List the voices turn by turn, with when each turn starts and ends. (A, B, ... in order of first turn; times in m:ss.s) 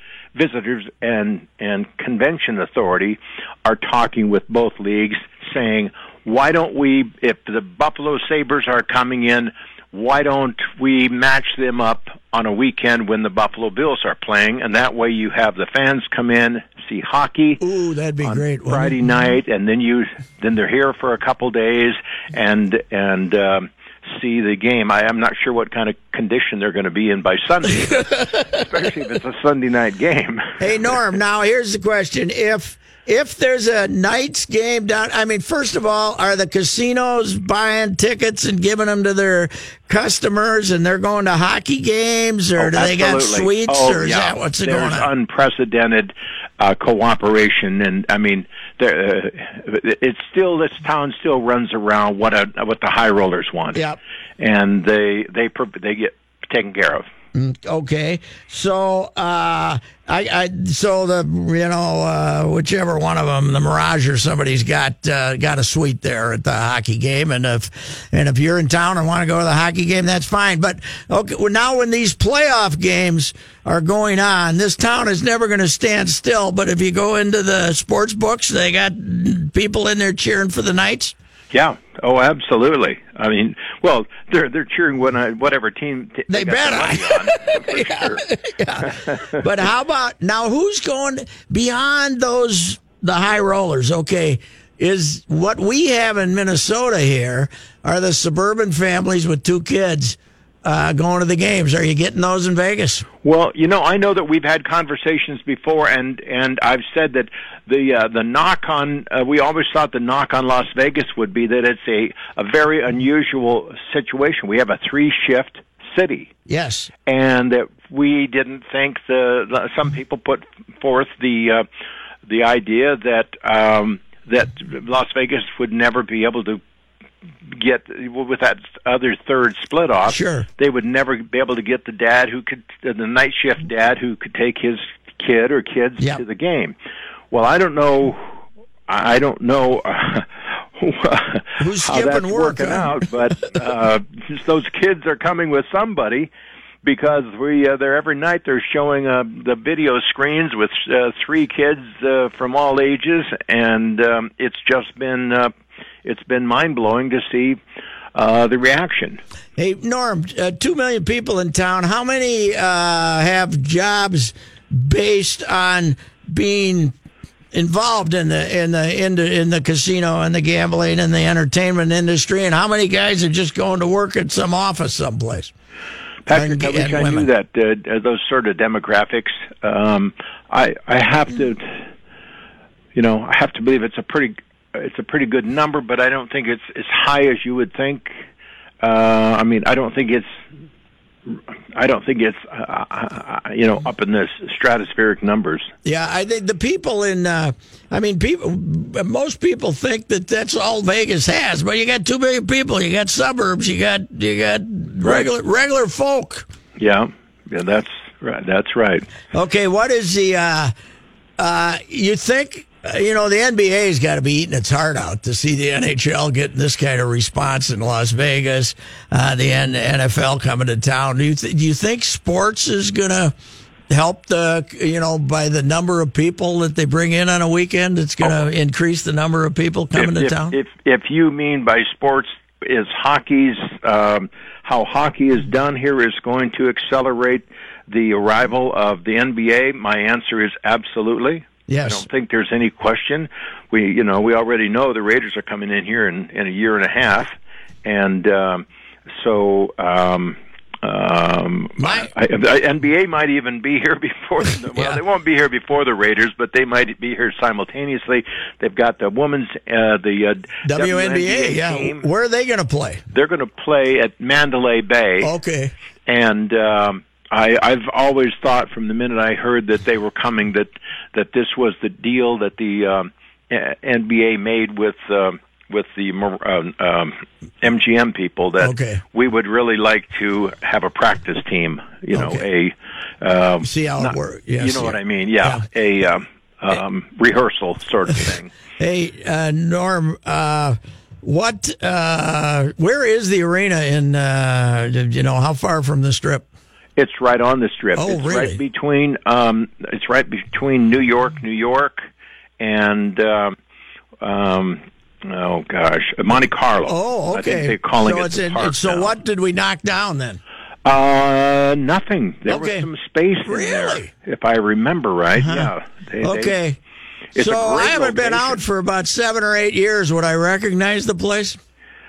0:00.3-0:17.6 A
0:17.6-0:19.2 B
0:18.2-0:30.9 A
0:30.6-0:45.1 B
0:42.6-0:53.8 A
0:53.7-0:54.0 B
0:54.4-0:57.0 A
0:57.3-1:21.1 B
1:21.5-1:28.2 A
1:26.3-1:43.0 B
1:28.8-1:29.4 A
1:43.2-1:56.3 A
1:56.5-1:56.9 B
1:57.0-2:01.6 A
2:02.2-2:06.6 A
2:07.4-2:16.7 A
2:10.1-2:10.4 B
2:17.3-2:18.3 A
2:18.9-2:26.3 A
2:21.6-2:22.9 B
2:26.8-2:35.5 A
2:36.0-2:37.6 A
2:38.1-2:39.2 A
2:39.6-2:46.9 B
2:47.5-2:55.5 B
2:56.2-3:01.8 A
2:56.3-2:57.3 B
3:02.9-3:08.1 A
3:08.8-3:10.3 A
3:11.7-3:15.7 A
3:15.8-3:26.5 B
3:25.0-3:25.3 A
3:26.8-3:29.0 A
3:29.3-3:30.7 B
3:31.4-3:43.3 B
3:43.9-3:50.6 B
3:48.2-3:48.5 A
3:49.9-4:07.3 A
4:01.7-4:02.0 B
4:07.8-4:08.6 A
4:09.2-4:22.1 A
4:11.8-4:12.1 B
4:20.6-4:23.0 B
4:23.1-4:25.3 A
4:25.2-4:25.7 B
4:26.1-4:48.5 A
4:38.6-4:39.0 B
4:42.1-4:42.4 B
4:43.6-4:45.6 B
4:48.8-4:56.4 B
4:57.0-5:02.0 A
4:58.0-4:58.6 B
5:02.6-5:03.6 A
5:04.2-5:09.2 A
5:06.9-5:10.4 B
5:10.8-5:16.6 A
5:12.5-5:12.9 B
5:13.4-5:14.1 B
5:15.4-5:15.7 B
5:16.2-5:16.8 B
5:17.3-5:18.6 A
5:17.4-5:21.6 B